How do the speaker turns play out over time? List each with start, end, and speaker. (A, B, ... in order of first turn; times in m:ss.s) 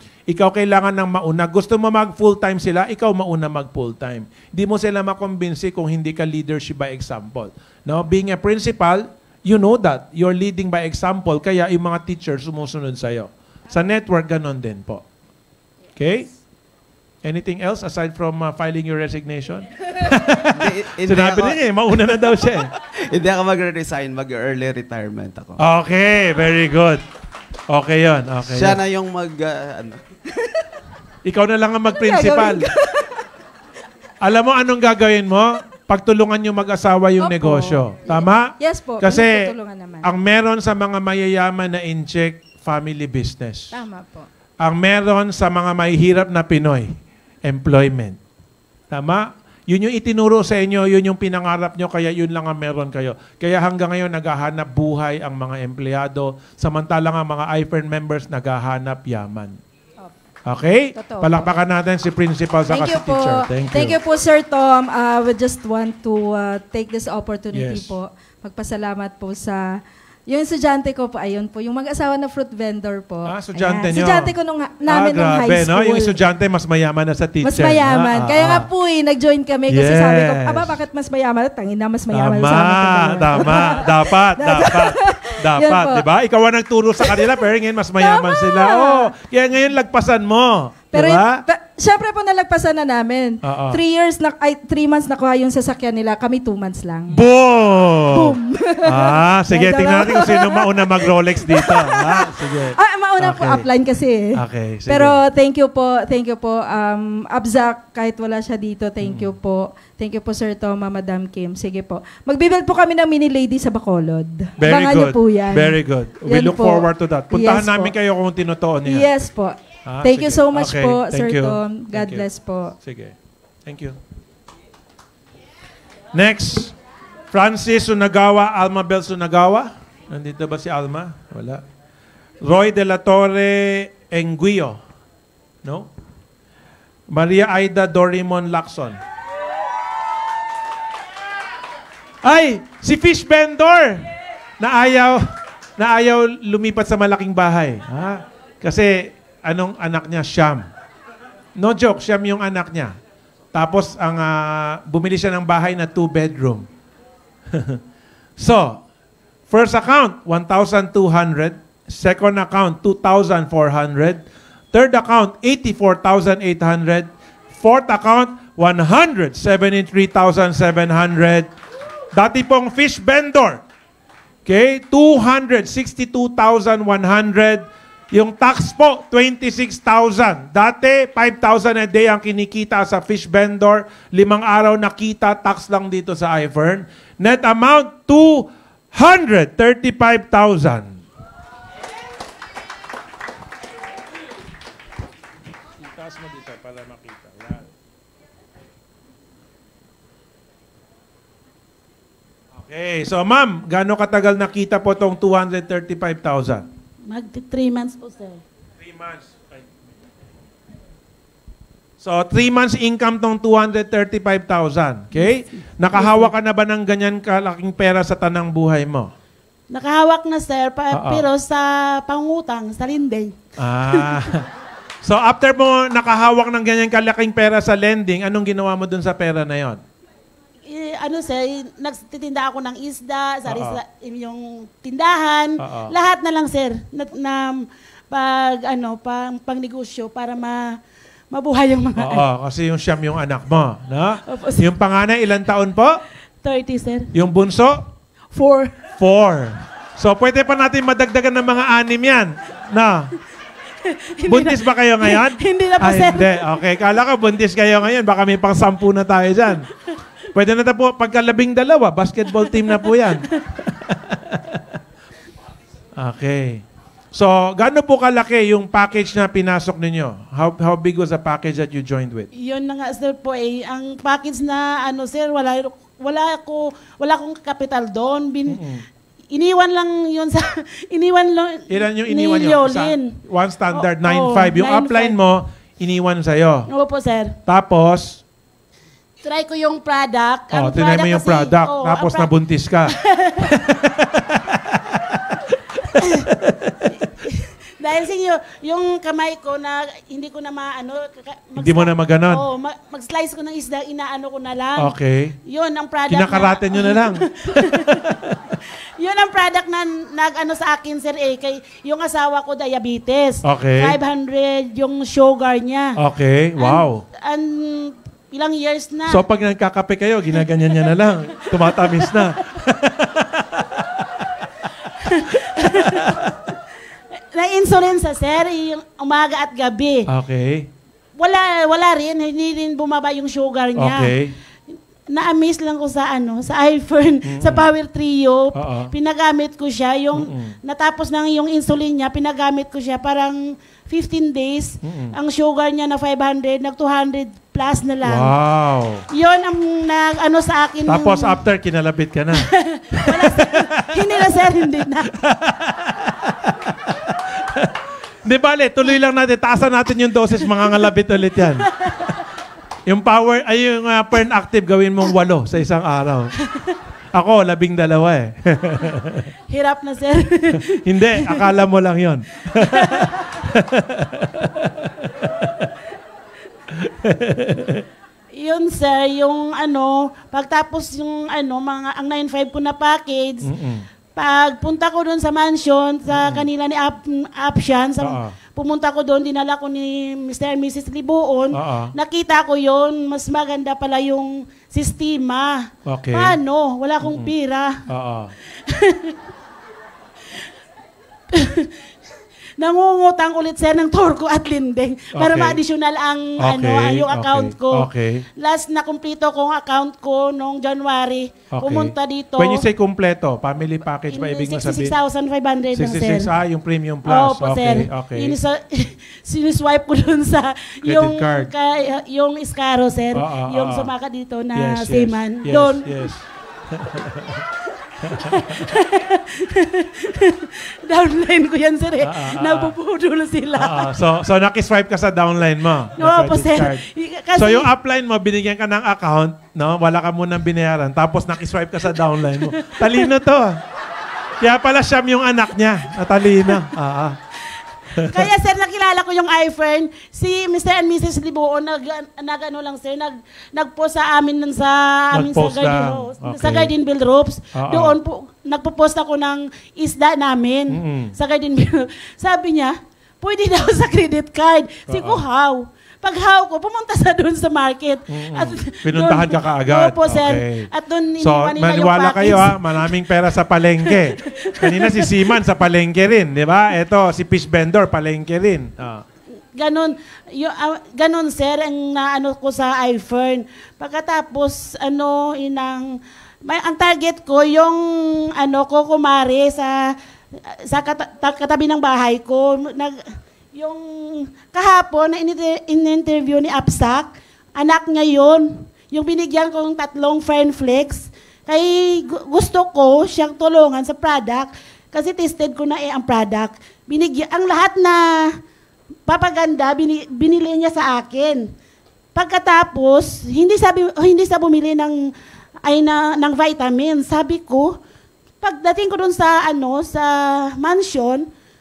0:00.3-0:15.0 A
0:16.0-0:16.3 A
0:17.2-0:22.7 A
0:20.5-0:25.6 B
0:25.6-0:27.0 A
0:27.7-0:28.8 A
0:28.4-0:30.2 B
0:31.2-0:32.7 A
0:32.0-0:33.2 C
0:34.2-0:39.5 A
0:37.2-0:40.1 C
0:40.0-0:43.8 A
0:43.7-0:44.3 C
0:44.6-0:46.9 A
0:47.4-0:48.2 A
0:48.9-0:59.6 A
1:00.4-1:04.0 A
1:00.9-1:01.5 C
1:02.7-1:16.2 C
1:07.5-1:07.9 A
1:13.2-1:14.3 A
1:14.9-1:18.7 A
1:17.4-1:26.0 C
1:19.7-1:20.8 A
1:22.1-1:31.4 A
1:27.0-1:27.3 C
1:28.0-1:29.1 C
1:30.9-1:37.2 C
1:33.4-1:33.8 A
1:37.1-1:43.6 A
1:38.1-1:57.9 C
1:44.3-1:45.2 A
1:49.0-1:49.3 A
1:54.6-1:59.1 A
1:58.8-2:02.8 C
1:59.8-2:02.3 A
2:02.8-2:03.1 A
2:03.6-2:04.0 A
2:06.1-2:06.7 A
2:07.3-2:11.6 A
2:12.4-2:14.8 A
2:15.6-2:15.9 A
2:17.1-2:19.0 A
2:22.2-2:24.1 A
2:24.6-2:30.7 A
2:31.6-2:32.9 A
2:33.5-2:36.6 A
2:37.5-2:37.8 A
2:38.4-2:38.8 A
2:39.5-2:44.2 A
2:44.7-2:51.5 A
2:52.1-2:53.6 A
2:54.4-3:11.0 A
3:15.8-3:17.6 A
3:22.6-3:26.6 A
3:27.1-3:28.4 D
3:28.8-3:29.7 A
3:32.0-3:39.1 A
3:35.9-3:36.3 D
3:39.7-3:43.4 D
3:40.9-3:41.2 A
3:43.6-3:44.5 A
3:43.9-3:44.3 D
3:45.0-3:49.8 A
3:50.7-4:00.8 D
3:53.5-3:53.8 A
3:55.6-3:55.9 A
4:01.3-4:02.2 D
4:02.0-4:06.0 A
4:04.3-4:04.6 D
4:06.4-4:07.1 D
4:07.1-4:07.9 A
4:08.3-4:08.8 D
4:09.0-4:13.1 A
4:13.8-4:16.6 D
4:14.2-4:19.7 A
4:20.3-4:24.6 A
4:22.5-4:23.4 D
4:26.0-4:32.3 A
4:32.3-4:38.6 D
4:38.5-4:38.8 A
4:39.3-4:43.2 D
4:41.7-4:46.7 A
4:43.7-4:45.2 D
4:46.7-4:47.3 D
4:47.5-4:48.2 A
4:49.2-4:52.3 D
4:50.5-4:57.1 A
4:52.9-4:53.5 D
4:56.0-4:56.3 D
4:57.0-5:04.9 D
5:01.6-5:02.4 A
5:04.8-5:05.3 A
5:05.4-5:08.0 D
5:06.1-5:08.5 A
5:09.0-5:16.0 D
5:13.4-5:14.0 A
5:16.0-5:17.0 A
5:16.6-5:19.2 D
5:19.1-5:26.4 A
5:21.6-5:22.3 D
5:25.0-5:26.1 D
5:27.3-5:30.1 D
5:30.1-5:30.7 A
5:31.2-5:34.2 D
5:33.8-5:34.3 A
5:35.1-5:48.3 D
5:37.2-5:37.7 A
5:38.5-5:38.9 A
5:40.1-5:40.5 A
5:44.8-5:45.1 A
5:48.0-5:49.0 A
5:49.1-5:51.4 D
5:50.8-5:54.3 A
5:52.4-5:55.1 D
5:55.2-6:01.7 A
6:01.6-6:02.2 D
6:02.8-6:06.3 A
6:07.1-6:09.3 A
6:09.5-6:11.4 D
6:10.6-6:15.7 A
6:12.6-6:13.3 D
6:16.7-6:17.8 A
6:18.3-6:23.5 D
6:23.4-6:23.9 A
6:24.1-6:37.8 D
6:26.1-6:26.4 A
6:28.0-6:28.3 A
6:31.5-6:31.9 A
6:35.8-6:36.4 A
6:37.0-6:37.3 A
6:37.9-6:38.3 A
6:38.6-6:39.2 D
6:41.3-6:41.7 D
6:42.6-6:52.7 D
6:45.1-6:45.6 A
6:46.4-6:48.2 A
6:51.5-6:54.9 A
6:54.1-6:56.3 D
6:55.7-6:58.4 A
6:57.0-7:06.1 D
7:00.8-7:01.5 A
7:03.1-7:03.9 A
7:04.5-7:07.5 A
7:08.0-7:08.7 A
7:08.2-7:13.9 D
7:12.0-7:12.7 A
7:13.5-7:16.8 A
7:16.0-7:17.7 D
7:17.3-7:23.6 A
7:22.5-7:23.0 D
7:24.4-7:27.2 A
7:27.9-7:28.2 A
7:28.1-7:53.0 D
7:35.1-7:36.7 A
7:37.5-7:38.0 A
7:40.7-7:41.1 A
7:44.9-7:45.2 A
7:48.1-7:59.0 A
7:53.8-7:55.4 D
7:59.5-8:09.9 D
8:10.6-8:28.4 D
8:29.1-8:31.5 D
8:32.1-8:35.1 D
8:35.6-8:37.8 D
8:38.4-8:41.3 D